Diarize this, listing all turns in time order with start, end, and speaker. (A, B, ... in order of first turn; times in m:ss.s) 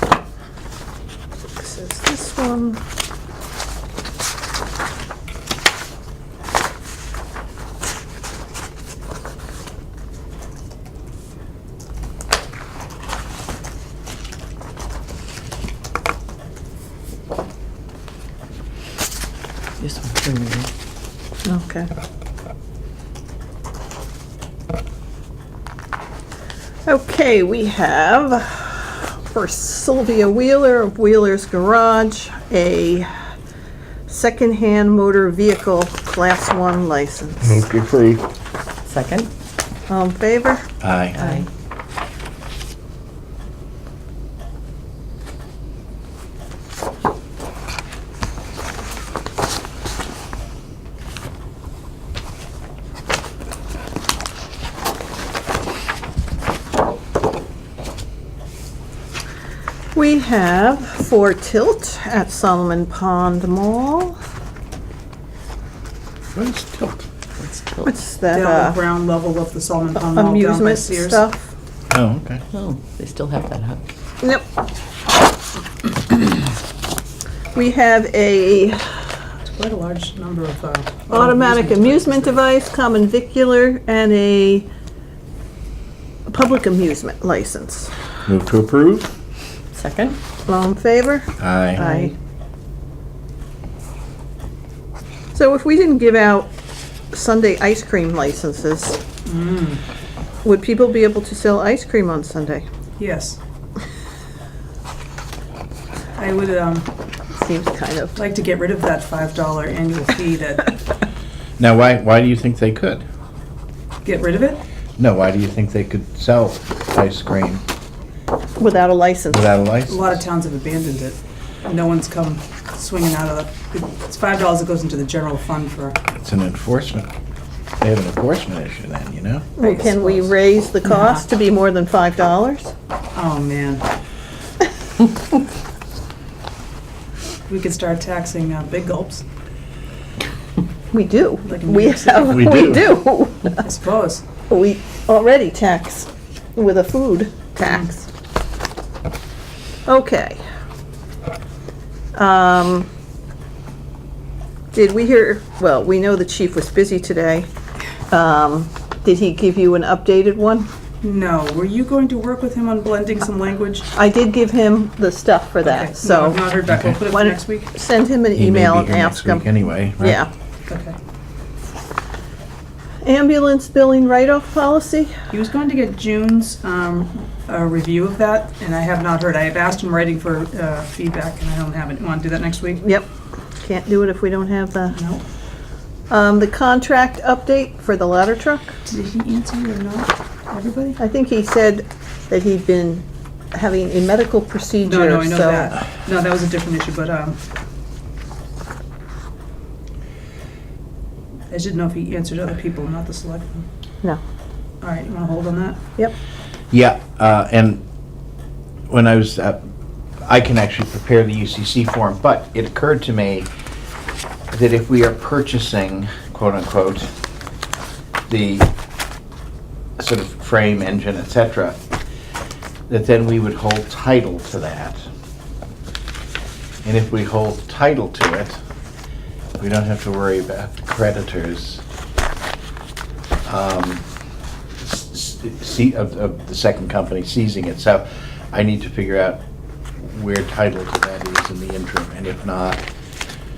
0:01.6-0:02.8 A
0:19.8-0:20.7 B
0:21.4-0:21.9 A
0:26.9-0:33.1 A
0:34.1-0:37.7 A
0:37.4-0:38.2 C
0:38.9-0:39.3 B
0:39.9-0:40.7 A
0:40.8-0:41.2 C
0:41.2-0:41.5 B
0:59.9-1:04.2 A
1:06.3-1:07.0 C
1:07.4-1:07.9 B
1:07.8-1:08.8 A
1:08.3-1:11.2 D
1:10.0-1:11.5 A
1:11.9-1:12.4 C
1:12.5-1:13.8 B
1:17.6-1:18.8 A
1:19.4-1:22.4 D
1:21.1-1:24.7 A
1:26.3-1:27.9 A
1:28.3-1:29.1 C
1:29.8-1:30.2 B
1:30.5-1:32.1 A
1:31.4-1:32.0 C
1:35.3-1:36.5 A
1:37.1-1:39.0 A
1:39.3-1:39.8 D
1:40.4-1:42.7 A
1:43.0-1:43.4 D
1:46.2-1:46.9 D
1:47.3-1:48.2 A
1:48.2-1:50.8 D
1:51.6-1:53.0 C
1:54.0-1:54.6 D
1:55.0-1:57.6 C
1:58.6-1:59.4 A
1:59.3-2:00.0 C
1:59.9-2:06.0 D
2:06.1-2:07.1 C
2:07.8-2:09.5 C
2:09.6-2:12.7 A
2:09.6-2:10.3 D
2:13.2-2:13.9 D
2:17.5-2:19.2 D
2:20.9-2:23.6 A
2:21.4-2:22.6 D
2:22.3-2:23.0 C
2:23.6-2:24.2 D
2:24.5-2:28.1 A
2:27.6-2:27.9 D
2:29.9-2:30.4 A
2:32.2-2:32.9 A
2:34.7-2:37.5 A
2:38.1-2:40.7 A
2:41.0-2:43.9 D
2:43.9-2:46.4 A
2:45.6-2:47.7 D
2:46.7-2:47.0 C
2:47.1-2:49.5 A
2:48.4-2:50.2 C
2:50.0-2:50.3 A
2:50.7-2:51.0 D
2:53.0-2:55.2 A
2:55.3-3:02.8 D
3:02.8-3:03.1 A
3:03.6-3:05.0 A
3:04.9-3:05.2 D
3:06.1-3:08.8 A
3:08.9-3:11.0 D
3:11.0-3:15.8 A
3:14.8-3:17.4 D
3:21.5-3:23.7 D
3:24.8-3:25.8 D
3:26.7-3:27.8 C
3:28.9-3:29.6 C
3:30.2-3:33.5 C
3:34.5-3:37.1 C
3:38.3-3:38.7 C
3:40.0-3:41.8 C
3:42.9-3:45.0 C
3:46.8-3:48.6 C
3:49.6-3:51.8 C
3:53.4-3:54.0 C
3:54.8-3:59.4 C
4:00.0-4:02.8 C